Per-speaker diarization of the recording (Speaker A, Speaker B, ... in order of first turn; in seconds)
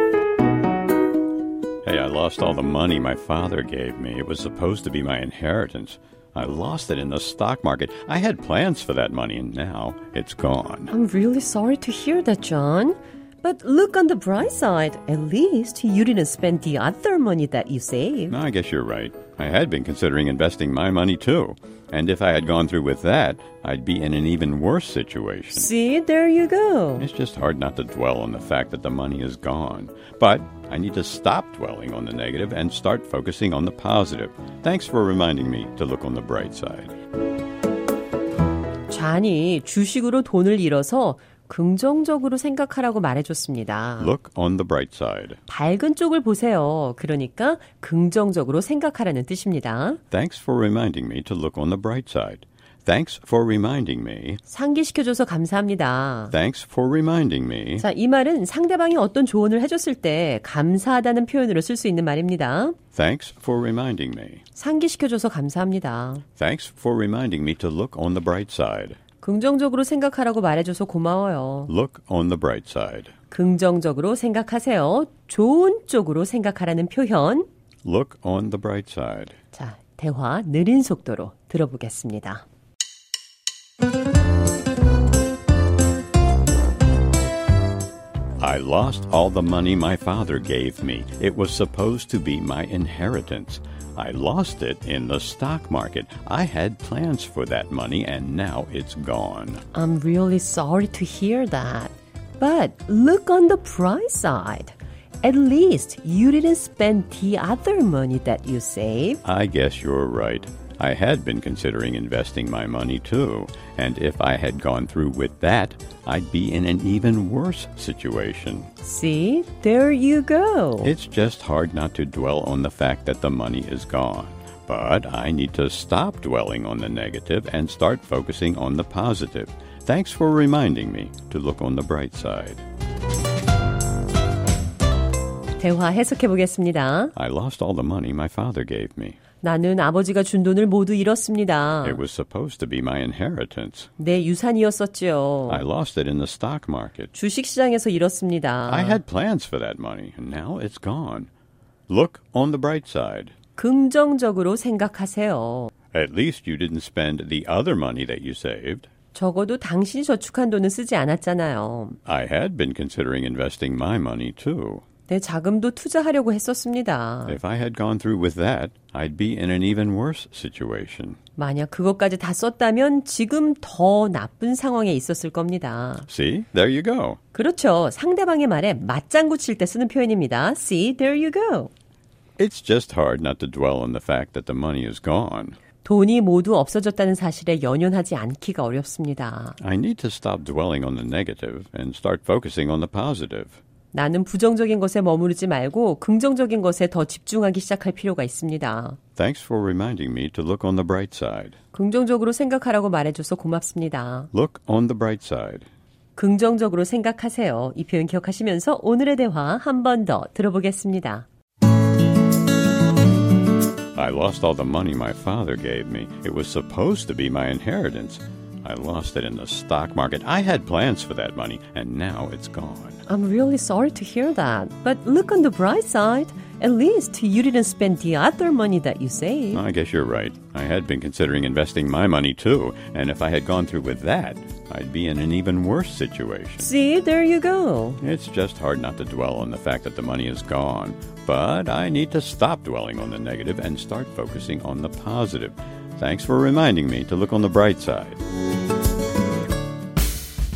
Speaker A: 1.8-10.9, 18.3-25.7, 27.0-36.9, 44.0-45.4, 50.1-54.4, 56.3-57.9, 62.9-64.4, 66.4-69.0, 71.7-73.1, 77.8-79.3, 88.4-99.6, 109.2-118.7, 120.8-132.6, 137.1-139.2, 141.8-143.9, 145.5-147.1, 148.7-151.3, 151.9-153.3, 155.9-158.9, 162.1-164.8, 167.2-171.2, 176.1-177.2, 182.4-185.6, 189.6-193.6, 199.2-201.6, 204.3-205.7, 213.9-223.0, 229.5-236.7, 238.0-248.2
Speaker B: 10.9-18.4, 25.5-27.0, 38.9-44.1, 45.5-50.0, 54.5-56.3, 57.8-62.8, 64.5-66.2, 69.2-71.7, 73.3-77.5, 79.5-82.4, 99.7-109.2, 118.8-120.9, 135.6-137.1, 139.4-142.0, 144.0-145.6, 147.1-149.0, 153.6-155.7, 159.1-162.0, 165.1-167.4, 171.4-176.1, 177.3-181.7, 185.8-189.6, 193.9-199.0, 201.7-204.3, 206.2-211.3, 223.1-229.6, 236.6-238.0